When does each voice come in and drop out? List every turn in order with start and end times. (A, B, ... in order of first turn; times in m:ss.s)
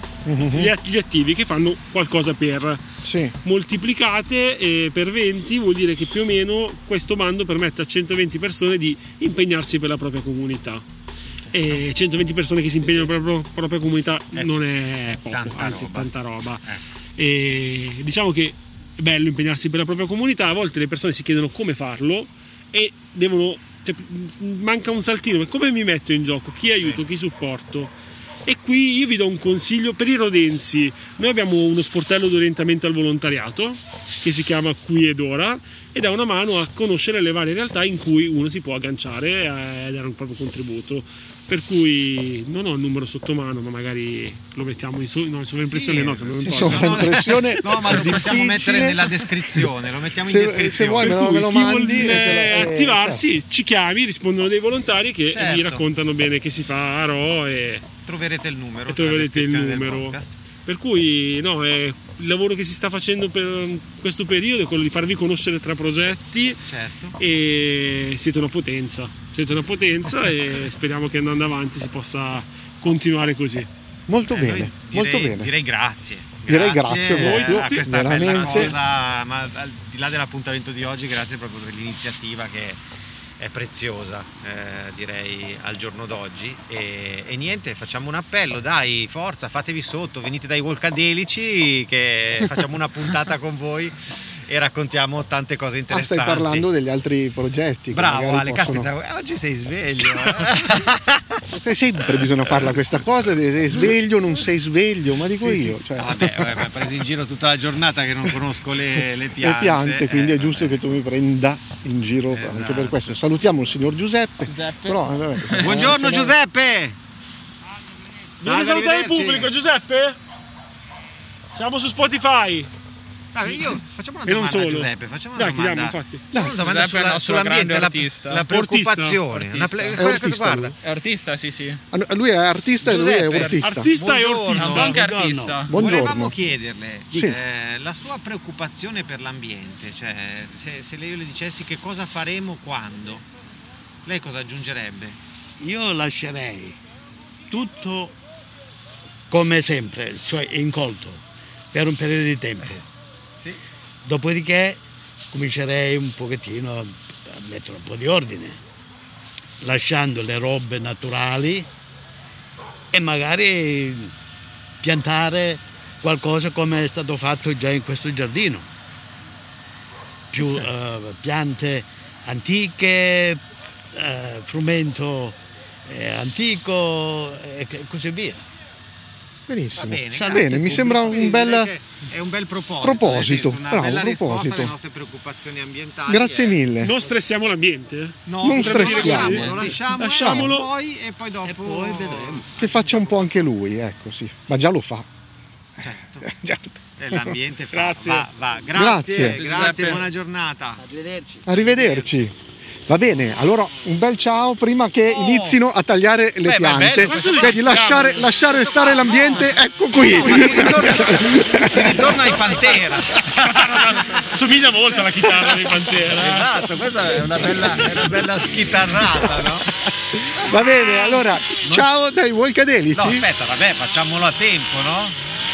0:00.3-0:00.7 A
0:00.4-0:02.8 B
0:03.0-0:03.3 A
0:03.4-0:10.8 B
0:11.5-0:27.9 B
0:15.3-0:16.1 C
0:28.5-0:47.4 B
0:45.6-0:51.2 C
0:46.4-0:49.7 A
0:50.2-0:53.2 A
0:51.0-0:57.9 B
0:55.3-0:55.8 C
0:58.1-1:00.3 C
0:58.9-1:13.7 B
1:06.7-1:07.2 C
1:14.1-1:15.5 A
1:14.3-1:22.8 C
1:16.5-1:18.8 A
1:17.0-1:18.8 B
1:23.4-1:34.0 C
1:34.5-1:36.7 C
1:35.9-1:38.9 A
1:37.9-1:41.4 C
1:41.5-1:46.6 A
1:45.4-1:50.8 C
1:49.4-1:56.4 A
1:52.3-1:53.2 C
1:54.5-1:56.0 D
1:55.6-1:57.0 C
1:58.4-2:00.2 B
1:58.4-1:59.5 C
2:01.5-2:02.7 B
2:03.3-2:10.8 C
2:04.2-2:06.2 B
2:06.6-2:08.5 D
2:08.5-2:09.2 B
2:09.3-2:10.2 D
2:10.0-2:10.8 A
2:10.8-2:11.8 D
2:11.9-2:13.9 A
2:12.8-2:15.0 C
2:12.9-2:13.6 D
2:13.6-2:15.1 B
2:14.6-2:15.7 D
2:14.9-2:15.6 E
2:15.7-2:16.4 A
2:15.7-2:23.3 C
2:17.1-2:17.4 A
2:24.1-2:25.2 C
2:25.6-2:26.8 E
2:27.5-2:28.2 E
2:29.3-2:32.8 E
2:34.0-2:38.6 E
2:39.6-2:41.7 E
2:42.9-2:44.1 E
2:44.8-2:48.7 E
2:50.3-2:53.4 E
2:53.9-2:58.4 E
2:59.5-3:01.7 A
2:59.8-3:06.6 C
3:00.1-3:01.4 E
3:02.8-3:04.7 A
3:06.1-3:06.9 A
3:06.8-3:10.7 B
3:08.3-3:13.5 C
3:08.4-3:09.7 A
3:08.6-3:09.8 E
3:10.2-3:10.6 A
3:11.4-3:12.5 E
3:12.6-3:15.1 A
3:15.8-3:16.3 C
3:16.2-3:17.4 A
3:17.0-3:20.8 C
3:17.7-3:18.3 B
3:18.7-3:19.4 A
3:19.1-3:20.1 D
3:20.8-3:21.5 E
3:21.5-3:22.4 A
3:21.5-3:22.2 C
3:22.9-3:32.4 A
3:25.1-3:25.6 C
3:26.4-3:34.3 C
3:27.0-3:28.2 B
3:33.2-3:36.6 B
3:35.4-3:39.7 C
3:39.0-3:39.5 A
3:40.2-3:43.3 A
3:40.3-3:41.9 C
3:42.9-3:45.2 C